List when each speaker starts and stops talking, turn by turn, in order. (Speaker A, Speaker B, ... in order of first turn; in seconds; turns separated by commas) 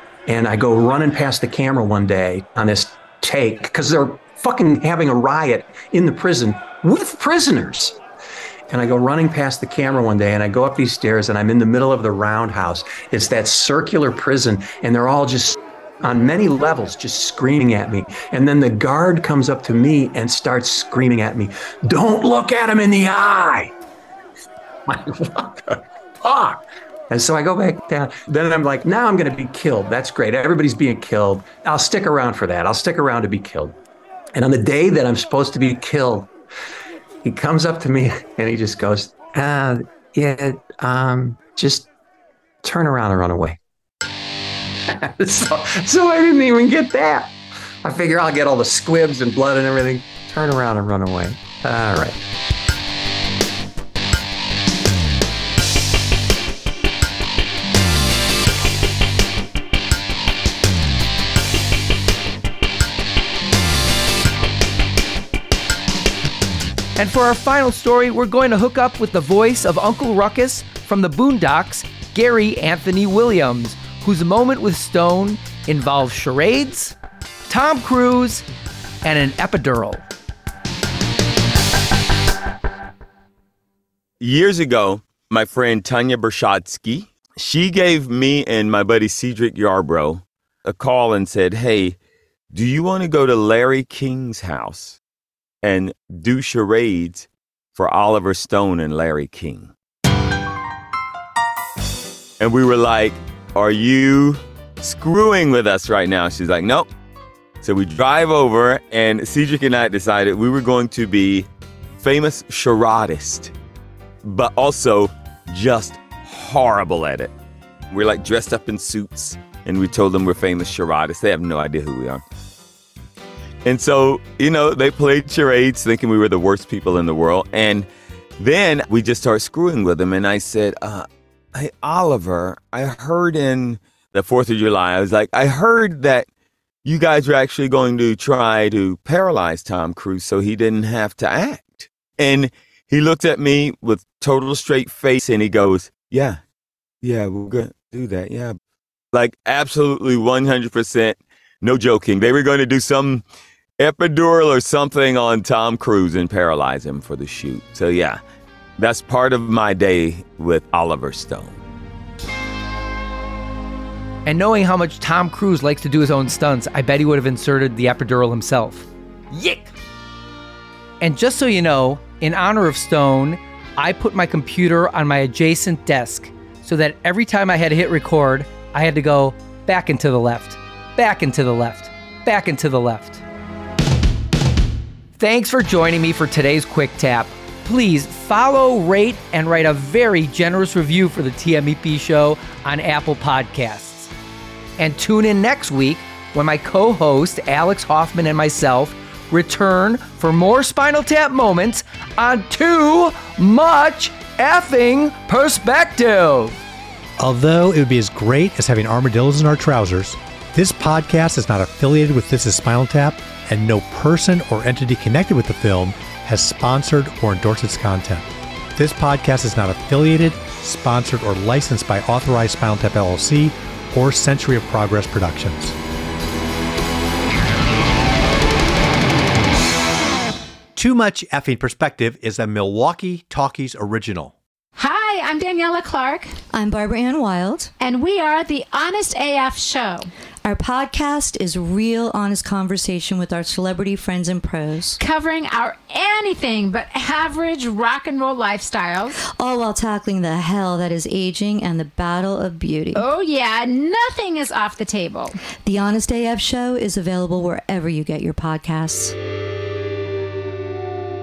Speaker A: 0.3-8.0, Speaker A: 8.7-23.7, Speaker A: 24.9-33.8, Speaker A: 34.3-36.3, Speaker A: 37.2-41.9, Speaker A: 42.6-43.6, Speaker A: 44.9-47.3, Speaker A: 47.8-52.1, Speaker B: 67.0-77.0, Speaker B: 77.5-78.4, Speaker B: 79.0-80.1, Speaker C: 84.2-92.0, Speaker C: 92.5-95.0, Speaker C: 95.6-99.7, Speaker C: 102.4-106.9, Speaker C: 107.6-111.5, Speaker C: 112.0-113.5, Speaker C: 114.2-117.3, Speaker C: 117.9-122.2, Speaker C: 123.6-127.9, Speaker C: 128.4-136.3, Speaker C: 136.8-146.4, Speaker C: 147.0-148.6, Speaker C: 149.1-153.2, Speaker C: 153.8-158.2, Speaker C: 158.8-161.6, Speaker B: 164.2-169.7, Speaker B: 171.0-183.2, Speaker B: 185.2-194.1, Speaker B: 194.8-206.6, Speaker D: 207.2-225.8, Speaker D: 230.8-234.3, Speaker E: 234.8-236.3, Speaker F: 236.5-237.7, Speaker E: 237.8-240.1, Speaker F: 240.4-245.0, Speaker E: 245.0-249.2, Speaker F: 249.3-253.0, Speaker E: 252.9-255.3, Speaker F: 255.7-259.1